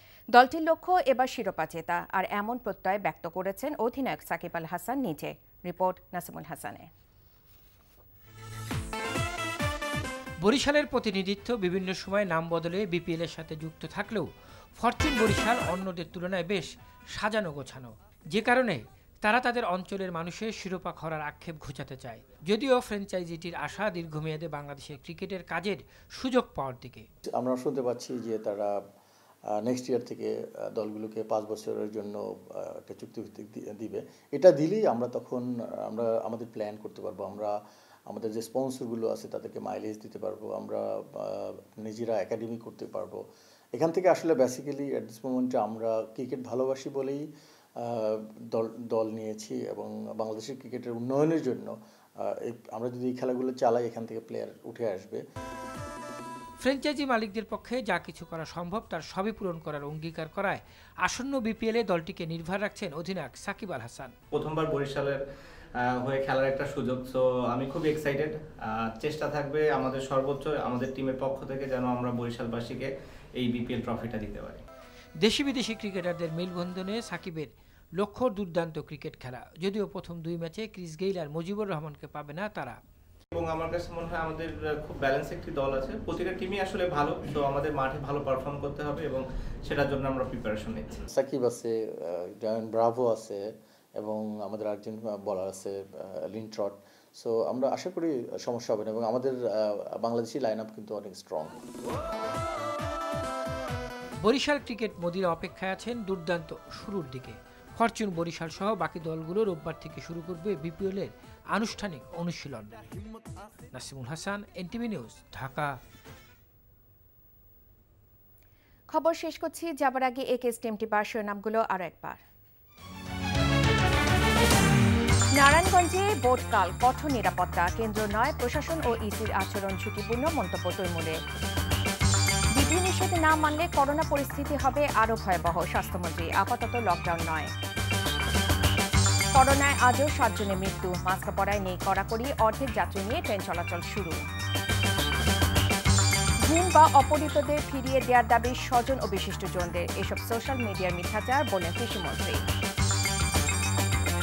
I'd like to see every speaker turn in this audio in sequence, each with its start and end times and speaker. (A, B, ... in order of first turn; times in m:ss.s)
0:00.3-0:06.9 A
0:10.4-0:27.1 B
0:27.3-0:28.7 C
0:29.6-0:37.5 C
0:38.1-0:43.2 C
0:43.7-0:47.2 C
0:47.8-0:55.2 C
0:56.6-1:04.1 B
1:04.3-1:05.2 D
1:06.0-1:14.6 D
1:15.2-1:22.8 B
1:23.3-1:31.0 D
1:31.1-1:33.4 C
1:34.0-1:41.6 C
1:44.2-1:52.8 B
1:53.7-1:55.8 B
1:58.9-2:02.2 A
2:05.4-2:11.2 A
2:12.5-2:17.5 A
2:19.3-2:24.2 A
2:26.4-2:32.4 A